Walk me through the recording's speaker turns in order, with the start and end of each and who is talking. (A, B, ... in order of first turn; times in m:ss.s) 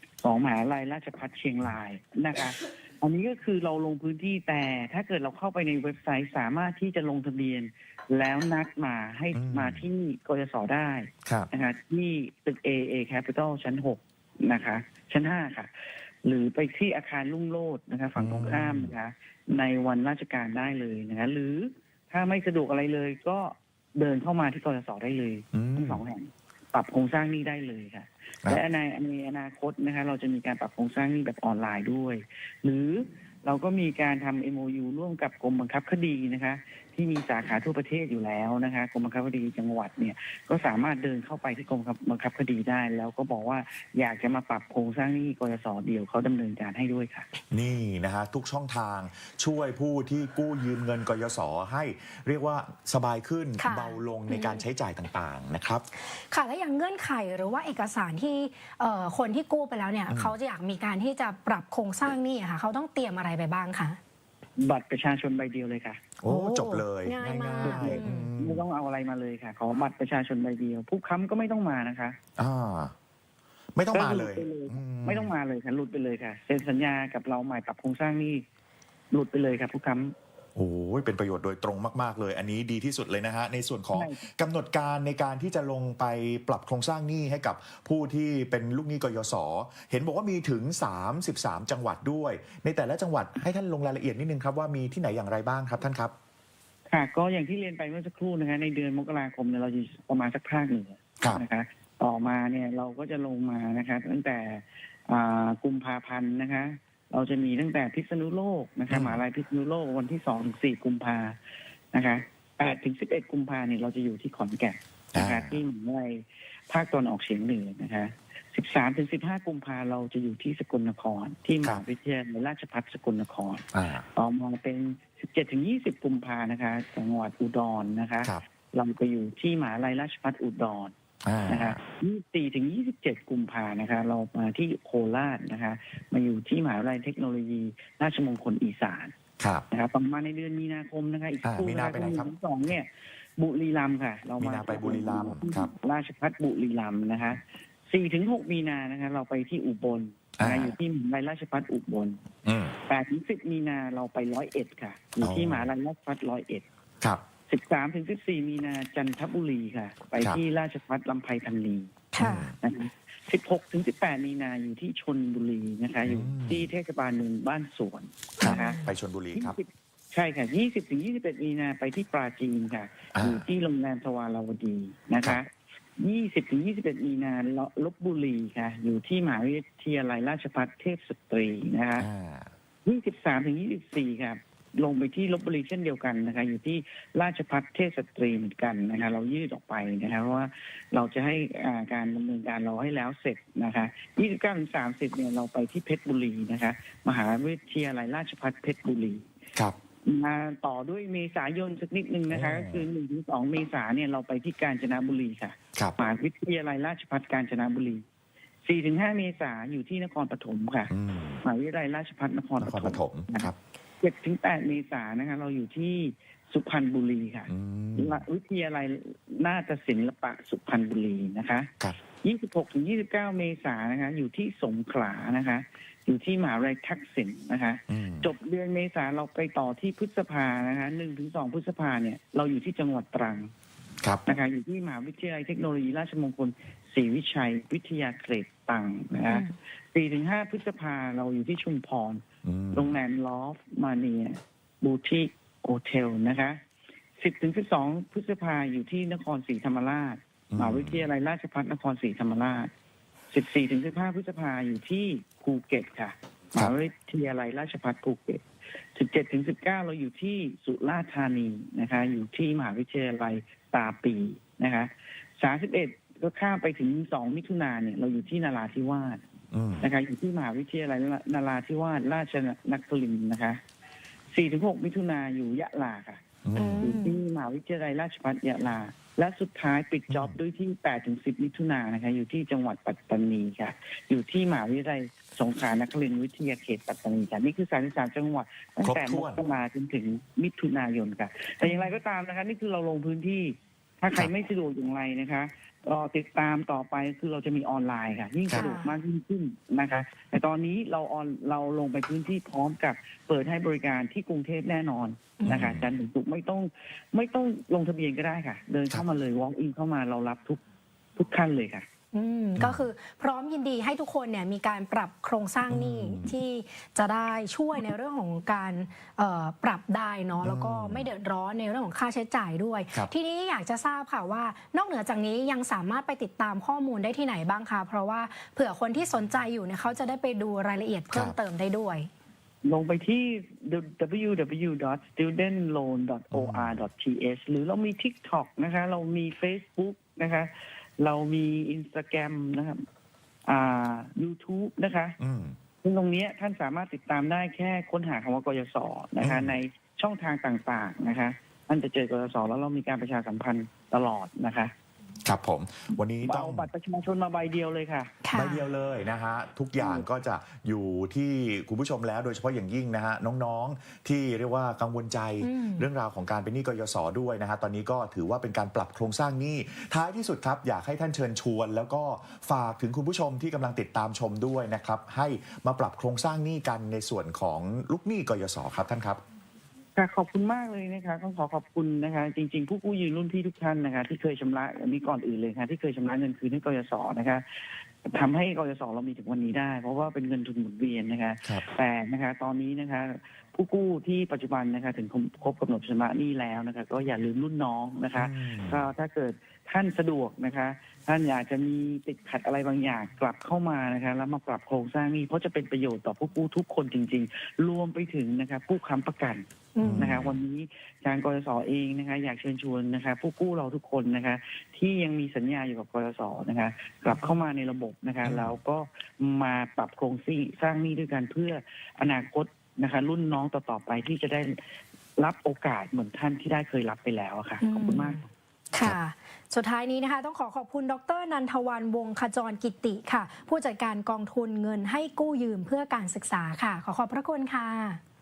0:00.2-0:15.7 A
0:09.3-0:09.9 B
0:16.2-0:47.3 A
0:18.2-0:18.9 B
0:25.5-0:26.0 B
0:47.5-0:55.9 B
0:53.6-0:54.6 C
0:56.0-1:04.0 C
1:00.1-1:00.4 B
1:04.6-1:06.0 A
1:06.2-1:08.6 B
1:06.2-1:08.3 C
1:07.6-1:12.2 A
1:12.4-1:12.9 B
1:13.8-1:15.3 B
1:13.9-1:18.4 A
1:19.1-1:20.1 A
1:20.6-1:36.1 B
1:23.9-1:24.2 A
1:36.9-1:51.4 A
1:48.9-1:49.2 B
1:51.9-2:10.9 A
1:55.2-1:55.6 B
2:03.7-2:04.0 B
2:11.2-2:11.8 B
2:11.5-2:19.1 A
2:19.4-2:19.7 B
2:19.7-2:32.2 A
2:21.4-2:22.3 B
2:24.4-2:25.7 B
2:30.4-2:30.8 B
2:32.4-2:32.8 B
2:32.9-2:36.6 A
2:35.2-2:35.7 B
2:37.5-2:41.9 A
2:42.1-2:42.5 C
2:42.2-2:42.5 B
2:42.6-2:48.8 A
2:46.0-2:46.7 B
2:48.4-2:49.6 B
2:48.4-2:48.9 C
2:49.4-3:02.1 A
2:53.1-2:53.5 B
3:02.0-3:02.5 B
3:02.8-3:19.2 A
3:20.0-3:28.0 A
3:22.3-3:22.9 B
3:28.6-3:30.9 A
3:30.9-3:31.4 B
3:31.4-3:53.5 A
3:32.6-3:33.6 B
3:37.5-3:38.2 B
3:47.9-3:48.3 B
3:54.2-4:06.6 A
3:59.3-3:59.6 C
4:02.4-4:03.0 B
4:07.2-4:12.7 A
4:10.5-4:11.1 B
4:13.3-4:18.4 A
4:18.9-4:29.2 A
4:29.5-4:29.9 B
4:29.8-4:33.6 A
4:34.3-4:36.2 A
4:36.4-4:36.9 B
4:36.6-4:37.2 C
4:36.8-5:10.6 A
4:40.1-4:40.4 B
4:48.8-4:49.4 B
4:51.6-4:51.9 C
4:58.5-4:59.0 C
5:05.4-5:05.7 C
5:05.4-5:05.9 B
5:11.2-5:11.9 A
5:12.1-5:32.1 C
5:12.6-5:12.9 B
5:15.7-5:16.4 B
5:20.4-5:21.1 B
5:32.6-5:42.8 A
5:36.3-5:36.8 B
5:43.5-5:45.2 A
5:45.2-5:45.6 B
5:45.8-5:54.7 A
5:49.2-5:49.6 B
5:55.2-5:56.7 B
5:56.2-5:58.2 A
5:58.2-5:58.6 C
5:58.3-6:19.2 B
6:05.4-6:05.9 C
6:20.0-7:04.6 A
6:38.1-6:38.8 B
6:49.8-6:50.2 C
6:49.8-6:50.4 B
6:58.2-6:58.6 B
7:05.2-7:08.3 A
7:07.6-7:08.2 C
7:08.7-7:18.0 C